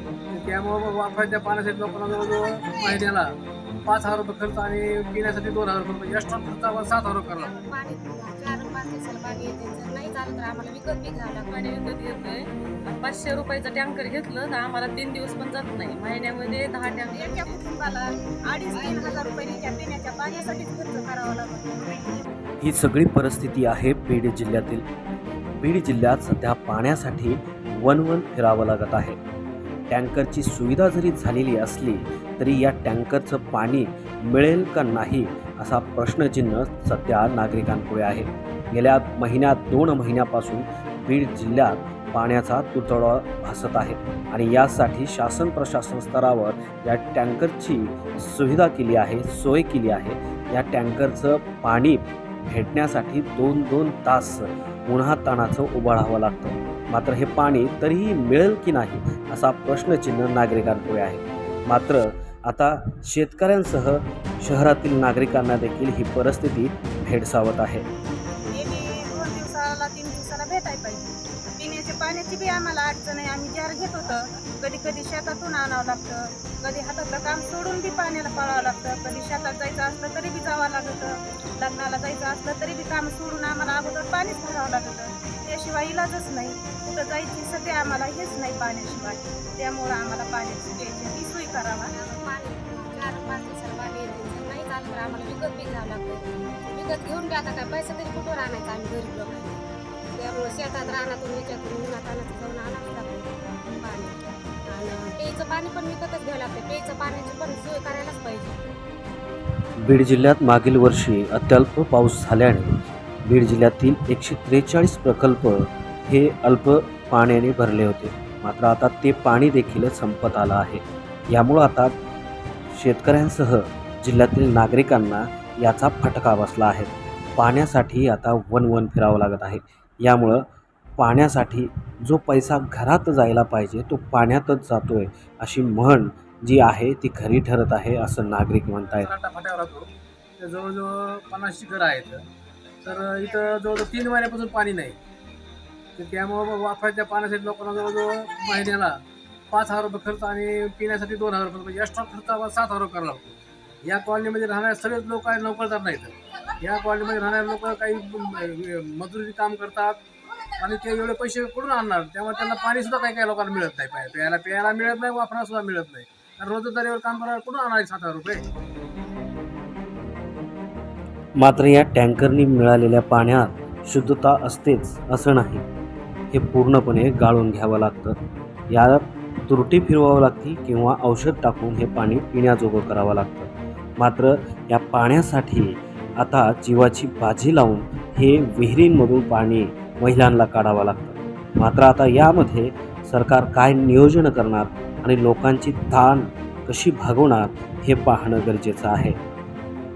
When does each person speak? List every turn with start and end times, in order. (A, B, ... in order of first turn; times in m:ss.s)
0:00.3-0:07.5 A
0:07.3-0:11.6 B
0:11.5-0:17.6 C
0:17.1-0:22.2 D
0:18.7-0:19.3 C
0:22.6-0:24.9 E
0:25.6-0:29.2 E
0:29.9-1:07.8 E
1:08.5-1:31.9 D
1:31.9-1:39.6 B
1:40.1-1:43.3 B
1:43.8-1:48.6 B
1:49.8-2:02.0 E
2:02.7-2:10.5 E
2:11.0-2:19.1 E
2:19.0-2:22.3 A
2:22.8-2:25.0 A
2:26.0-2:40.0 A
2:40.6-2:48.4 A
2:51.4-2:55.6 E
2:56.3-2:58.2 E
2:58.7-3:19.2 E